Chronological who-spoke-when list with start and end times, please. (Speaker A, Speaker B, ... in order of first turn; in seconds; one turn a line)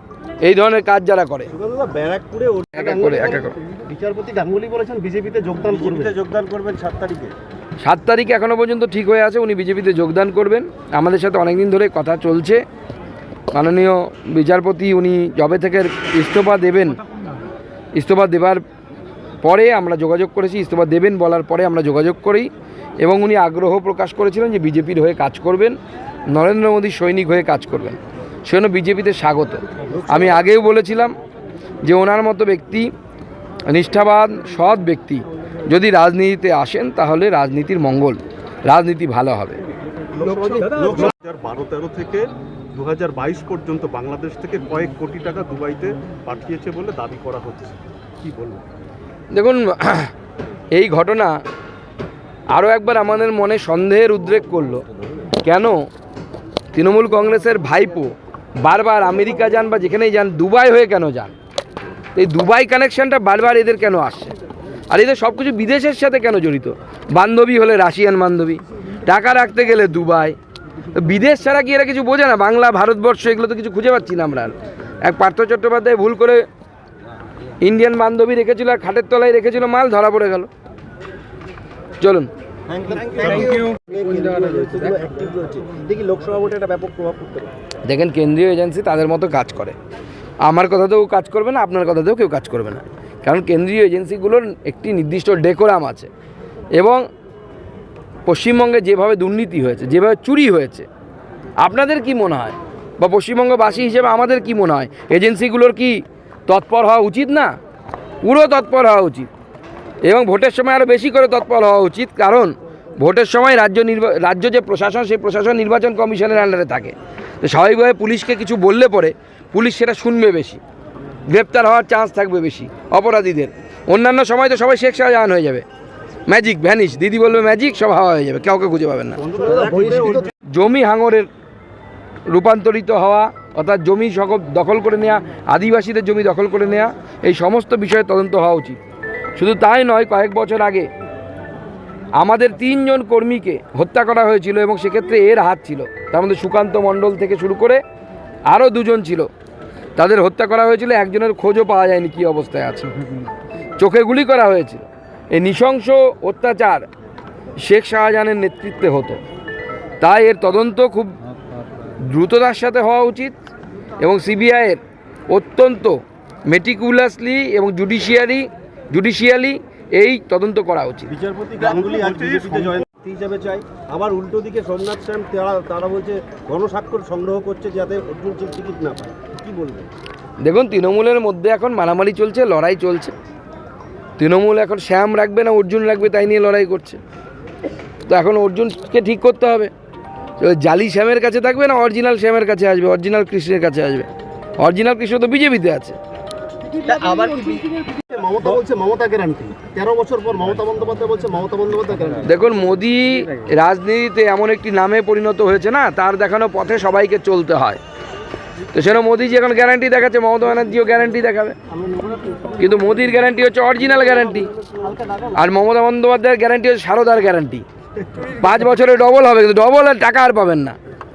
Speaker A: 0.4-1.5
Speaker B: 1.5-6.2
Speaker A: 2.7-3.5
Speaker C: 5.7-7.3
Speaker A: 7.8-12.6
Speaker A: 13.5-17.0
Speaker A: 17.9-18.6
Speaker A: 19.4-22.5
Speaker A: 23.0-25.8
Speaker A: 26.3-31.1
Speaker A: 31.8-32.9
Speaker A: 33.7-39.6
Speaker C: 40.2-48.6
Speaker A: 49.3-50.1
Speaker A: 50.7-51.4
Speaker A: 52.5-54.8
Speaker A: 55.4-55.9
Speaker A: 56.7-61.4
Speaker A: 62.1-64.3
Speaker A: 64.9-70.4
Speaker A: 70.9-76.5
Speaker A: 77.6-80.5
Speaker A: 82.0-82.3
Speaker B: 82.7-87.5
Speaker A: 87.8-89.8
Speaker A: 90.4-96.1
Speaker A: 96.7-97.0
Speaker A: 98.3-100.9
Speaker A: 101.6-107.5
Speaker A: 108.2-109.3
Speaker A: 110.0-120.6
Speaker A: 121.3-125.7
Speaker A: 126.3-129.2
Speaker C: 129.2-130.3
Speaker B: 129.4-130.3
Speaker A: 130.5-131.3
Speaker A: 132.3-138.8
Speaker A: 139.4-140.9
Speaker A: 142.2-147.8
Speaker A: 148.5-149.3
Speaker A: 150.0-153.1
Speaker A: 153.8-156.9
Speaker A: 157.6-159.2
Speaker A: 160.0-161.2
Speaker A: 162.0-163.3
Speaker A: 164.0-171.1
Speaker B: 171.2-172.7
Speaker C: 171.6-173.1
Speaker D: 171.8-172.3
Speaker D: 173.1-175.2
Speaker B: 175.3-175.7
Speaker D: 176.0-177.5
Speaker D: 178.3-179.5
Speaker A: 180.4-183.1
Speaker A: 184.2-187.0
Speaker A: 188.1-189.7
Speaker A: 190.4-194.1
Speaker A: 194.6-196.0
Speaker D: 197.1-197.6
Speaker B: 198.0-202.3
Speaker A: 202.2-207.8
Speaker A: 208.7-211.6
Speaker A: 212.6-214.5
Speaker B: 214.8-215.1
Speaker A: 215.3-217.7
Speaker A: 218.2-220.8